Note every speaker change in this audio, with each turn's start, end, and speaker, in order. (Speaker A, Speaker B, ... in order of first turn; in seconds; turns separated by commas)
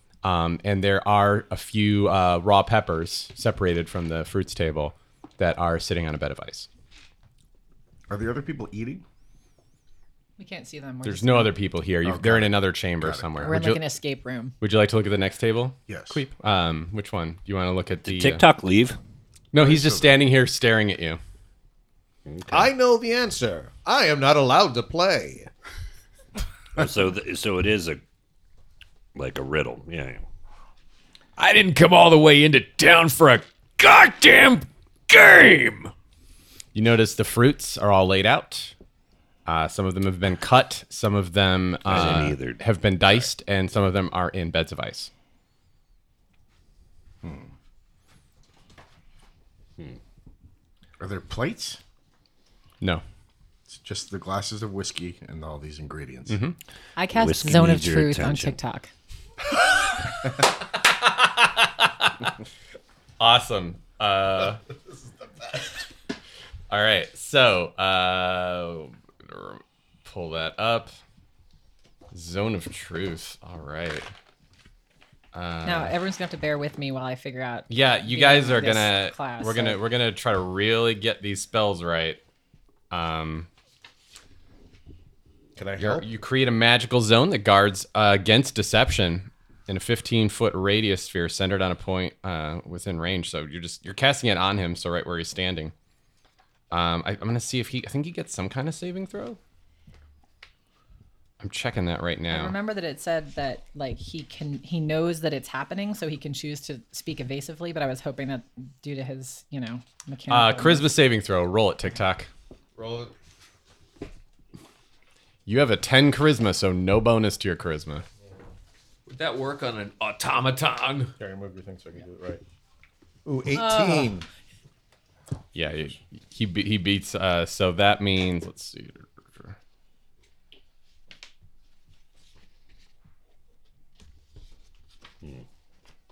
Speaker A: 0.2-6.7, Speaker B: 8.1-9.0, Speaker C: 10.4-11.5, Speaker A: 11.1-13.8, Speaker B: 12.0-13.6, Speaker C: 13.4-14.6, Speaker A: 14.6-18.4, Speaker B: 15.9-16.2, Speaker D: 18.1-19.0, Speaker A: 19.5-21.2, Speaker B: 19.6-20.2, Speaker D: 22.3-22.7, Speaker E: 22.5-25.5, Speaker D: 26.8-28.0, Speaker D: 29.1-30.2, Speaker F: 31.4-35.9, Speaker A: 36.7-38.7, Speaker A: 39.5-45.1, Speaker D: 41.9-42.6, Speaker B: 47.2-47.5, Speaker B: 51.0-51.8, Speaker B: 53.7-56.4, Speaker A: 56.3-56.6, Speaker C: 57.0-58.9, Speaker D: 57.1-58.6, Speaker A: 59.6-62.3, Speaker A: 63.2-64.6, Speaker A: 66.7-71.0, Speaker A: 72.1-74.1, Speaker A: 75.3-75.9, Speaker C: 75.6-79.8, Speaker A: 77.7-82.2, Speaker A: 82.9-83.5, Speaker E: 85.6-86.1, Speaker A: 85.8-95.7, Speaker A: 96.7-99.4, Speaker A: 101.4-102.5, Speaker C: 102.3-110.9, Speaker A: 110.3-112.3, Speaker E: 112.8-113.1, Speaker A: 115.5-118.0, Speaker F: 119.1-121.1, Speaker E: 121.2-122.4, Speaker E: 123.3-124.3, Speaker C: 123.5-124.1, Speaker A: 125.5-129.6